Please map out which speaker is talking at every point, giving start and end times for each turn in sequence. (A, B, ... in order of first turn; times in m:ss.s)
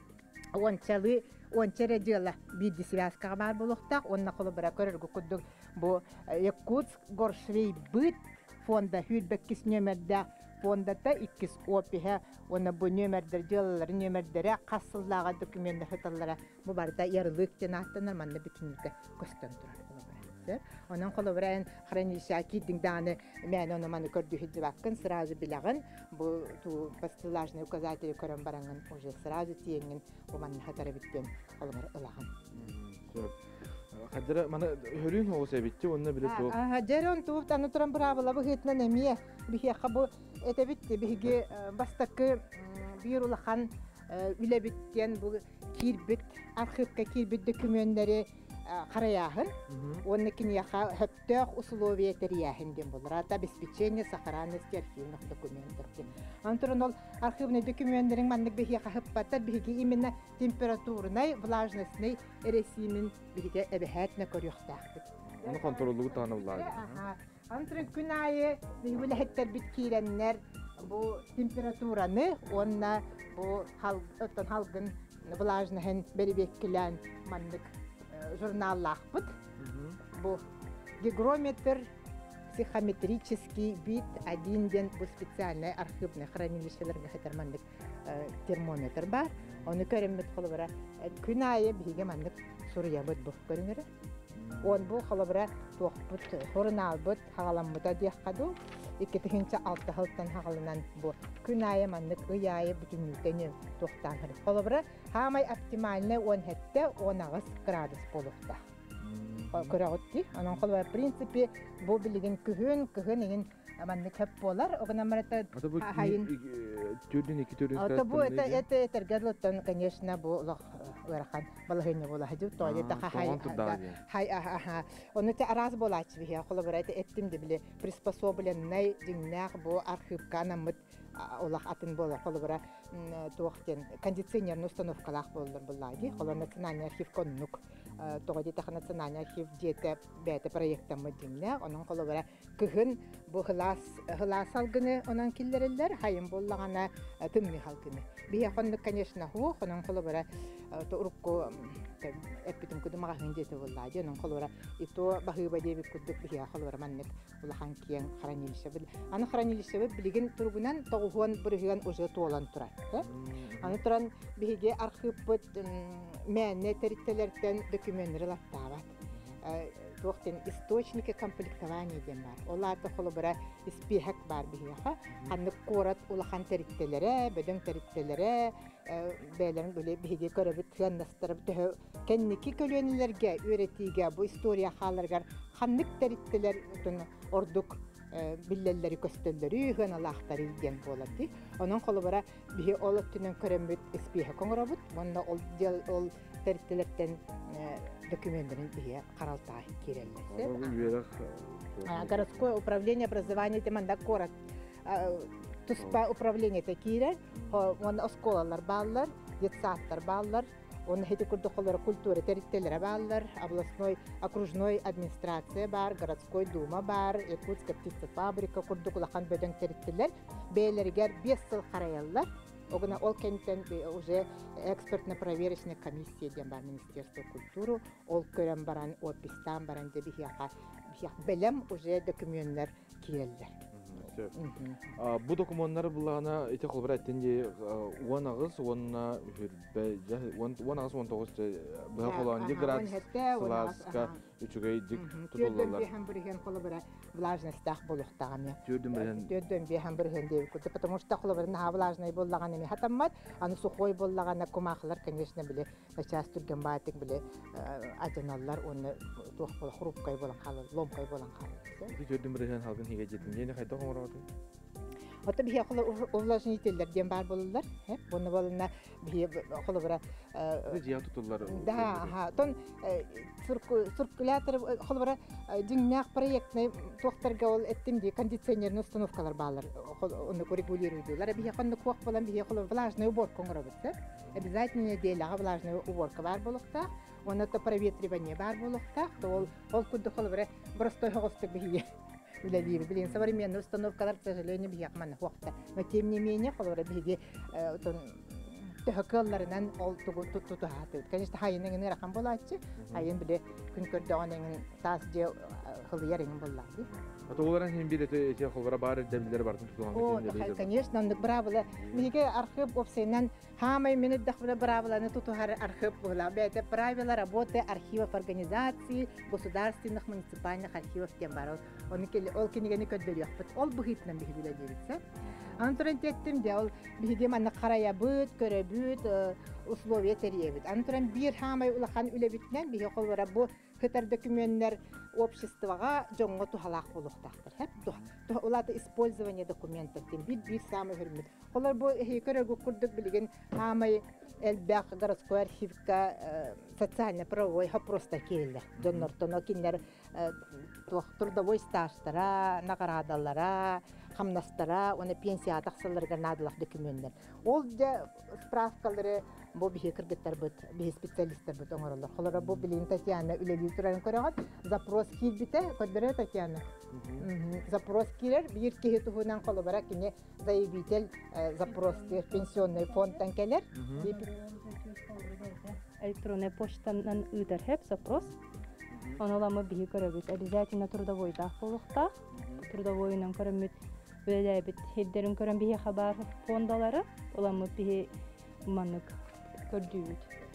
0:00.5-0:32.3 A
0:32.5-0:36.6 B
0:36.2-1:19.4 A
0:49.7-0:50.0 B
1:05.3-1:07.0 B
1:19.6-1:20.0 B
1:20.1-1:20.4 A
1:21.0-1:21.9 A
1:22.5-1:33.9 A
1:34.3-1:34.9 B
1:34.6-1:48.6 A
1:49.0-1:49.8 B
1:49.5-1:56.3 A
1:55.5-1:58.6 B
1:57.7-2:43.1 A
2:02.6-2:04.0 B
2:43.0-2:43.8 B
2:43.6-3:20.9 A
2:49.1-2:49.4 B
3:20.3-3:22.5 B
3:21.8-3:53.6 A
3:27.3-3:27.8 B
3:53.7-3:54.4 B
3:54.3-3:55.0 A
3:55.0-4:05.9 B
4:02.0-4:04.2 A
4:04.9-4:21.9 A
4:08.6-4:09.3 B
4:21.9-4:24.3 B
4:25.3-4:30.8 A
4:30.7-4:32.3 B
4:31.4-4:51.9 A
4:49.2-4:49.5 B
4:52.4-5:06.9 A
4:52.4-4:53.4 B
5:02.8-5:03.1 B
5:07.1-5:10.7 B
5:09.9-5:25.0 A
5:11.7-5:12.1 B
5:25.2-5:25.6 B
5:25.6-6:06.7 A
5:48.8-5:49.1 B
6:02.4-6:02.6 B
6:06.9-6:07.3 B
6:07.2-6:14.3 A
6:11.7-6:13.2 C
6:13.7-6:14.1 B
6:13.9-6:18.4 C
6:18.9-6:19.2 B
6:19.2-6:23.7 C
6:22.3-6:22.7 B
6:24.2-6:28.1 C
6:28.6-6:29.1 C
6:29.7-6:30.3 C